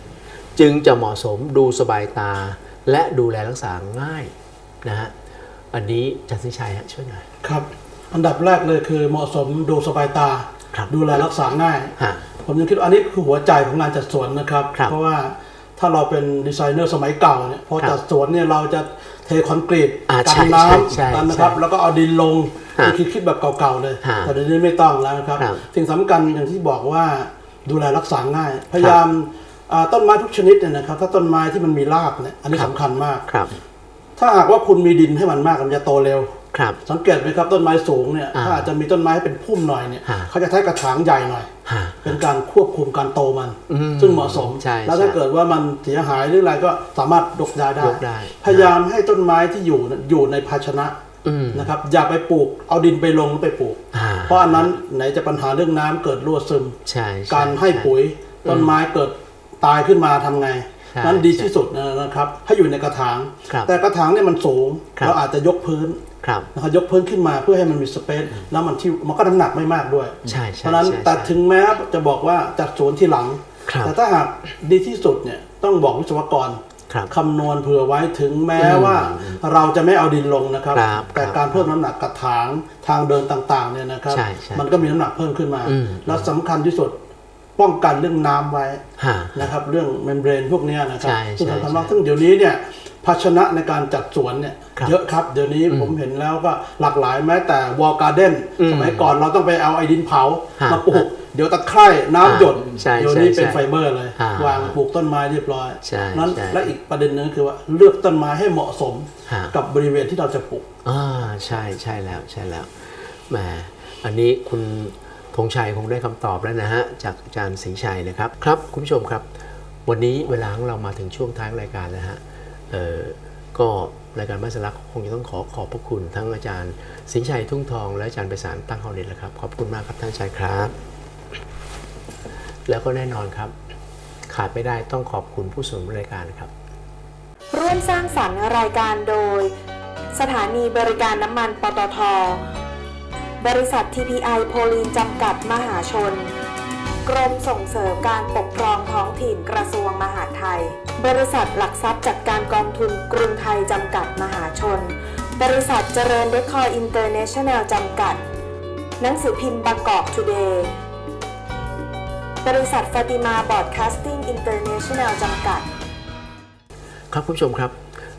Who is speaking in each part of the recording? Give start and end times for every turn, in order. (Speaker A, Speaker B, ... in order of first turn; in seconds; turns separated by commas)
Speaker A: 0.6-5.1, Speaker A: 5.7-7.3, Speaker B: 7.4-11.9, Speaker A: 12.0-12.2, Speaker B: 12.4-33.2, Speaker A: 20.1-21.6, Speaker A: 24.0-24.3, Speaker A: 25.4-25.6, Speaker A: 33.2-33.6, Speaker B: 34.2-41.5, Speaker A: 36.5-36.8, Speaker A: 38.3-38.7, Speaker A: 40.0-40.3, Speaker A: 41.6-42.2, Speaker B: 42.0-51.0, Speaker A: 43.7-45.2, Speaker A: 47.8-48.7, Speaker A: 51.2-51.7, Speaker B: 51.5-87.0, Speaker A: 53.9-54.7, Speaker A: 56.8-57.9, Speaker A: 58.4-58.7, Speaker A: 60.9-61.5, Speaker A: 66.2-66.5, Speaker A: 70.2-71.3, Speaker A: 73.7-73.9, Speaker A: 78.6-79.4, Speaker A: 80.7-81.7, Speaker A: 84.1-84.9, Speaker A: 85.6-86.3, Speaker B: 87.6-110.7, Speaker A: 89.0-89.5, Speaker A: 91.0-92.0, Speaker A: 95.7-96.0, Speaker A: 98.6-99.1, Speaker A: 100.6-101.0, Speaker A: 102.2-104.8, Speaker A: 105.8-106.7, Speaker A: 109.2-109.5, Speaker A: 110.8-119.3, Speaker A: 119.8-130.7, Speaker A: 132.7-133.5, Speaker A: 134.3-136.5, Speaker C: 137.5-139.5, Speaker C: 140.1-142.4, Speaker C: 143.4-146.3, Speaker C: 147.0-158.2, Speaker C: 159.0-160.7, Speaker C: 162.4-165.7, Speaker A: 167.1-167.8